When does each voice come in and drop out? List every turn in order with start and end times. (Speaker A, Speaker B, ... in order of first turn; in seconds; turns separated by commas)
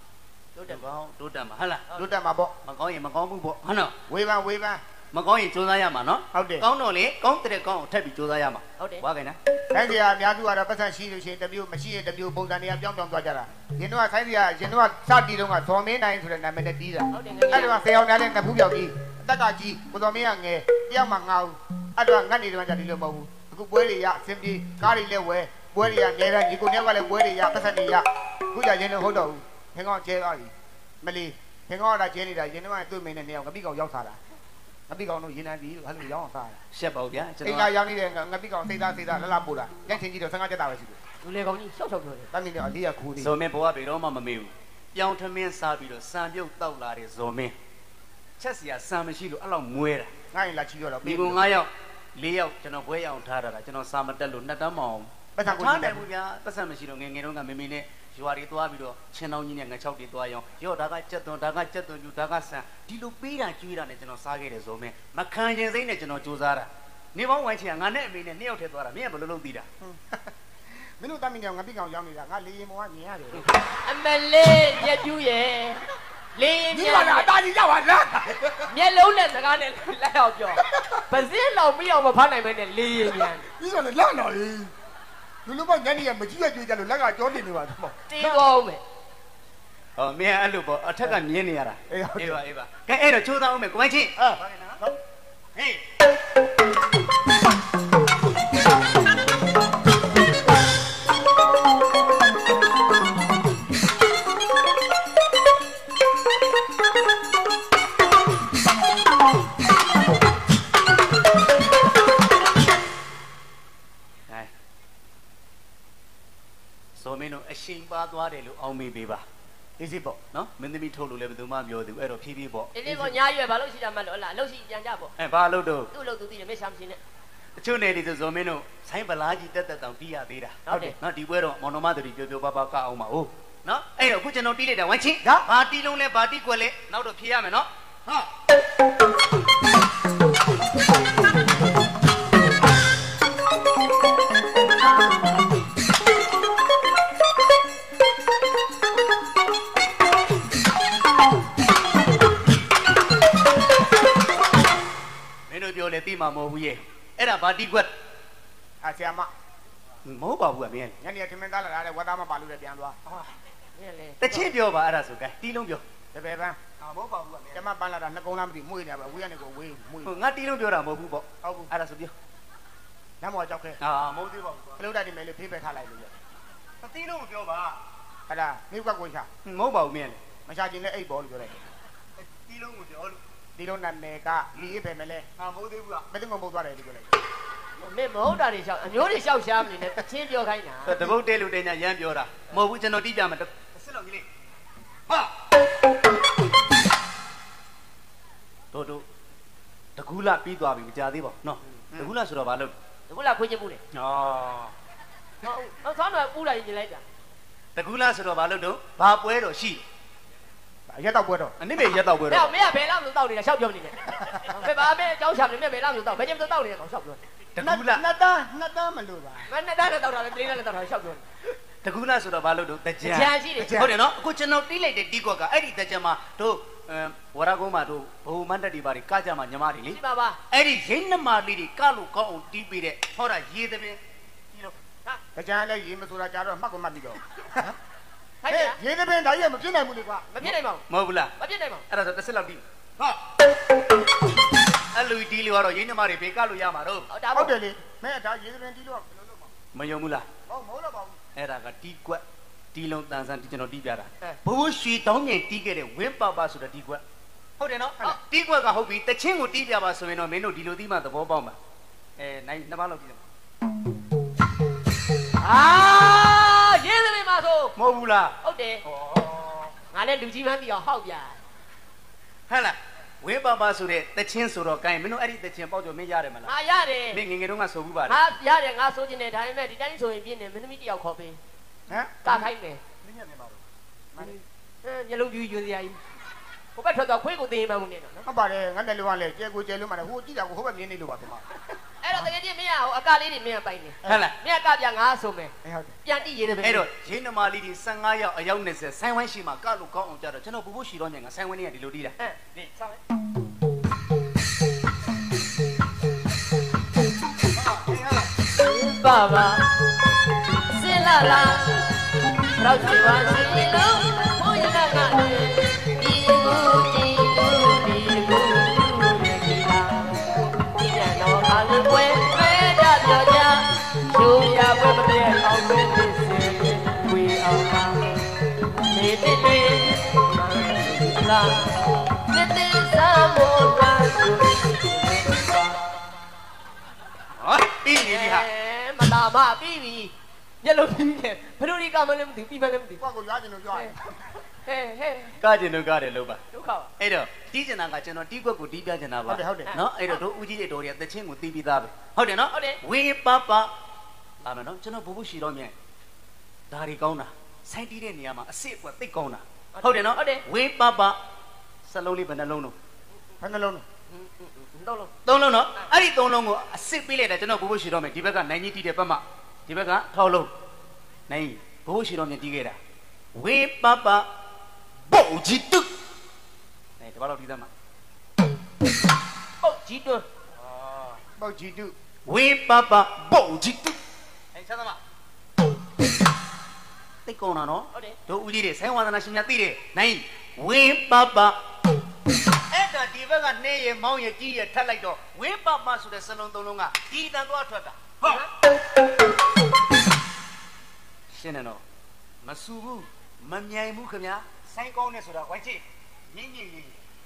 Speaker A: 0.6-0.8, Speaker B: 0.7-1.8, Speaker C: 1.9-2.5, Speaker B: 2.6-3.9, Speaker C: 4.1-4.8, Speaker B: 5.1-9.4, Speaker C: 6.3-6.6, Speaker C: 9.7-30.5, Speaker A: 17.1-17.8, Speaker C: 31.0-34.2, Speaker C: 34.9-36.6, Speaker B: 36.7-37.7, Speaker C: 37.4-41.0, Speaker A: 41.2-42.3, Speaker C: 42.3-43.3, Speaker B: 43.2-47.5, Speaker B: 48.4-50.1, Speaker C: 50.3-51.4, Speaker B: 51.0-69.7, Speaker C: 55.4-56.0, Speaker C: 69.8-70.3, Speaker C: 71.0-73.4, Speaker A: 73.8-75.8, Speaker A: 76.3-77.3, Speaker C: 76.7-78.7, Speaker A: 78.7-83.4, Speaker C: 80.7-81.0, Speaker C: 83.4-84.7, Speaker C: 85.5-88.1, Speaker A: 88.1-88.8, Speaker B: 90.0-94.8, Speaker C: 91.9-92.4, Speaker C: 94.2-94.9, Speaker B: 117.0-119.2, Speaker C: 119.8-120.2, Speaker B: 120.3-123.1, Speaker A: 122.7-125.1, Speaker B: 125.2-125.9, Speaker A: 125.9-127.0, Speaker B: 127.6-137.7, Speaker A: 130.7-130.9, Speaker B: 155.5-157.9, Speaker C: 158.8-159.3, Speaker B: 160.0-161.0, Speaker C: 161.0-162.9, Speaker A: 163.8-164.5, Speaker B: 164.2-165.8, Speaker C: 166.1-166.6, Speaker B: 166.8-167.6, Speaker C: 167.5-170.1, Speaker B: 170.0-172.1, Speaker C: 171.4-171.7, Speaker C: 173.2-173.8, Speaker B: 173.8-174.8, Speaker C: 174.8-176.1, Speaker B: 176.8-177.8, Speaker C: 178.3-179.3, Speaker B: 179.4-180.2, Speaker C: 180.5-181.6, Speaker B: 182.2-183.2, Speaker C: 183.6-185.2, Speaker B: 185.4-186.1, Speaker C: 186.1-187.2, Speaker A: 187.8-191.1, Speaker B: 190.8-194.2, Speaker B: 198.7-199.0, Speaker B: 200.0-202.7, Speaker A: 203.1-203.8, Speaker B: 203.9-204.7, Speaker A: 205.4-207.0, Speaker B: 207.8-209.8, Speaker C: 210.9-211.5, Speaker B: 211.6-212.5, Speaker A: 211.8-217.2, Speaker B: 217.5-218.0, Speaker C: 217.6-219.5, Speaker A: 219.5-221.2, Speaker B: 221.8-230.0, Speaker A: 223.0-223.8, Speaker C: 223.6-223.9, Speaker A: 229.9-230.4, Speaker B: 230.5-234.0, Speaker C: 235.3-237.8, Speaker A: 238.4-238.8, Speaker C: 238.5-240.3, Speaker A: 240.3-240.8, Speaker B: 240.4-241.3, Speaker A: 241.4-241.8, Speaker B: 241.9-243.2, Speaker B: 244.9-247.1, Speaker A: 247.1-247.6, Speaker C: 247.3-249.5, Speaker B: 249.7-250.2, Speaker C: 250.5-251.2, Speaker B: 251.3-252.2, Speaker B: 252.7-257.0, Speaker B: 257.6-261.6, Speaker B: 262.2-263.2, Speaker A: 265.4-267.7, Speaker B: 267.8-268.3, Speaker A: 268.4-268.8, Speaker B: 268.9-269.6, Speaker A: 269.9-271.4, Speaker B: 272.5-276.5, Speaker A: 276.4-277.2, Speaker B: 277.1-278.2, Speaker A: 278.1-281.4, Speaker C: 281.9-282.2, Speaker A: 282.2-282.8, Speaker B: 283.0-283.6, Speaker A: 284.8-286.0, Speaker A: 286.8-288.2, Speaker C: 288.2-291.4, Speaker A: 292.0-295.5, Speaker B: 294.1-294.3, Speaker C: 295.6-296.0, Speaker A: 296.0-296.9, Speaker B: 296.6-302.6, Speaker A: 308.5-309.7, Speaker A: 310.6-312.0, Speaker A: 312.5-328.3, Speaker A: 328.9-335.9, Speaker B: 337.4-338.5, Speaker A: 337.9-343.0, Speaker C: 343.0-344.0, Speaker A: 344.6-345.4, Speaker B: 345.4-346.4, Speaker A: 346.5-346.9, Speaker B: 347.0-353.7, Speaker C: 349.3-349.7, Speaker A: 349.7-350.2, Speaker A: 352.5-352.8, Speaker B: 354.4-355.7, Speaker B: 356.7-361.1, Speaker A: 359.8-360.4, Speaker B: 361.9-362.7, Speaker C: 363.4-363.8, Speaker A: 364.1-365.1, Speaker B: 365.2-370.5, Speaker B: 371.3-372.8, Speaker B: 373.4-374.2, Speaker B: 375.1-375.9, Speaker B: 377.0-377.7, Speaker A: 379.6-380.2, Speaker B: 380.7-381.2, Speaker C: 381.4-381.9, Speaker B: 382.3-384.0, Speaker B: 384.5-385.0, Speaker B: 387.2-391.6, Speaker B: 392.7-398.4, Speaker B: 401.3-401.8, Speaker B: 402.4-406.9